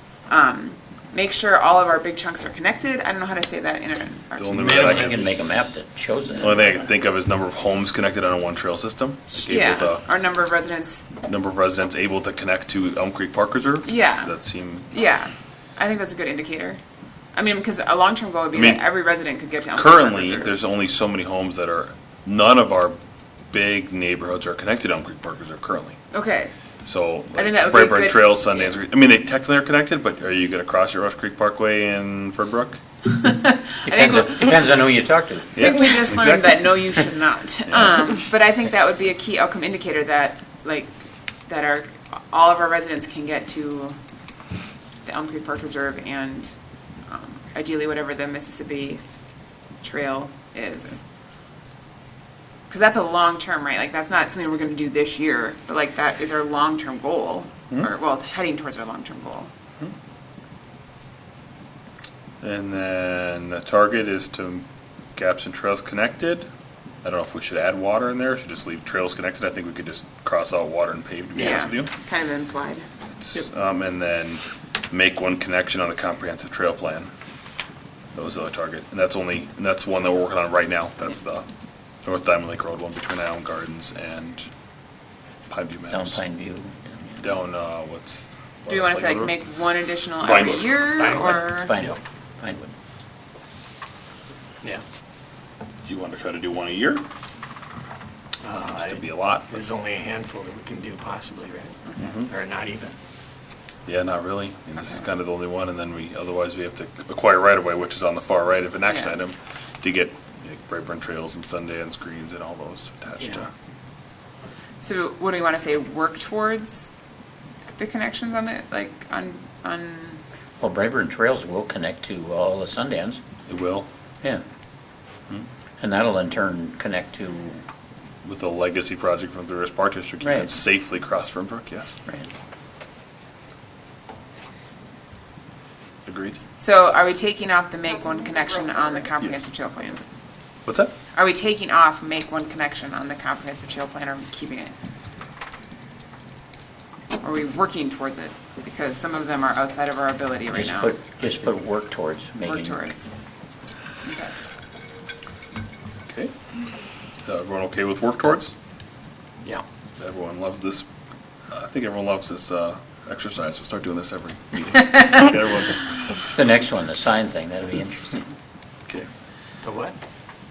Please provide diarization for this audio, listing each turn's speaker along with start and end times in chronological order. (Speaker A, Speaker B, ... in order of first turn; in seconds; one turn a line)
Speaker A: 0.3-5.2
Speaker B: 4.4-5.4
Speaker C: 4.5-6.9
Speaker B: 6.4-10.0
Speaker A: 9.3-11.1
Speaker B: 11.2-14.9
Speaker A: 13.8-14.3
Speaker A: 14.9-16.8
Speaker A: 17.3-20.5
Speaker B: 18.5-18.9
Speaker B: 19.8-23.0
Speaker B: 23.5-26.0
Speaker A: 26.1-26.5
Speaker B: 26.8-32.8
Speaker A: 27.3-28.8
Speaker A: 33.1-34.8
Speaker C: 33.8-36.1
Speaker B: 35.5-36.8
Speaker A: 35.6-44.0
Speaker B: 37.7-38.2
Speaker A: 45.0-46.5
Speaker A: 47.1-49.0
Speaker A: 49.8-51.0
Speaker A: 52.7-59.5
Speaker B: 62.4-66.5
Speaker B: 67.0-71.9
Speaker A: 71.4-72.8
Speaker B: 73.1-77.1
Speaker B: 78.1-81.5
Speaker B: 82.0-84.5
Speaker B: 85.5-86.2
Speaker C: 85.9-87.3
Speaker B: 87.2-89.3
Speaker A: 88.7-91.7
Speaker B: 90.2-90.8
Speaker D: 91.0-92.0
Speaker C: 91.3-92.7
Speaker B: 95.8-97.0
Speaker D: 98.4-102.9
Speaker B: 98.5-99.5
Speaker B: 102.0-102.3
Speaker B: 103.9-113.5
Speaker A: 108.8-109.2
Speaker A: 114.8-116.9
Speaker A: 117.8-120.2
Speaker C: 120.6-123.2
Speaker B: 123.5-123.9
Speaker C: 125.8-127.6
Speaker B: 128.2-131.9
Speaker C: 130.2-130.5
Speaker B: 136.1-136.4
Speaker A: 136.6-140.0
Speaker B: 140.7-140.9
Speaker A: 141.2-144.7
Speaker A: 147.2-150.9
Speaker C: 150.5-152.9
Speaker A: 152.4-153.1
Speaker A: 154.0-154.3
Speaker B: 156.1-156.3
Speaker B: 157.2-158.5
Speaker B: 160.0-160.9
Speaker B: 161.5-166.0
Speaker C: 166.3-168.2
Speaker D: 169.6-169.9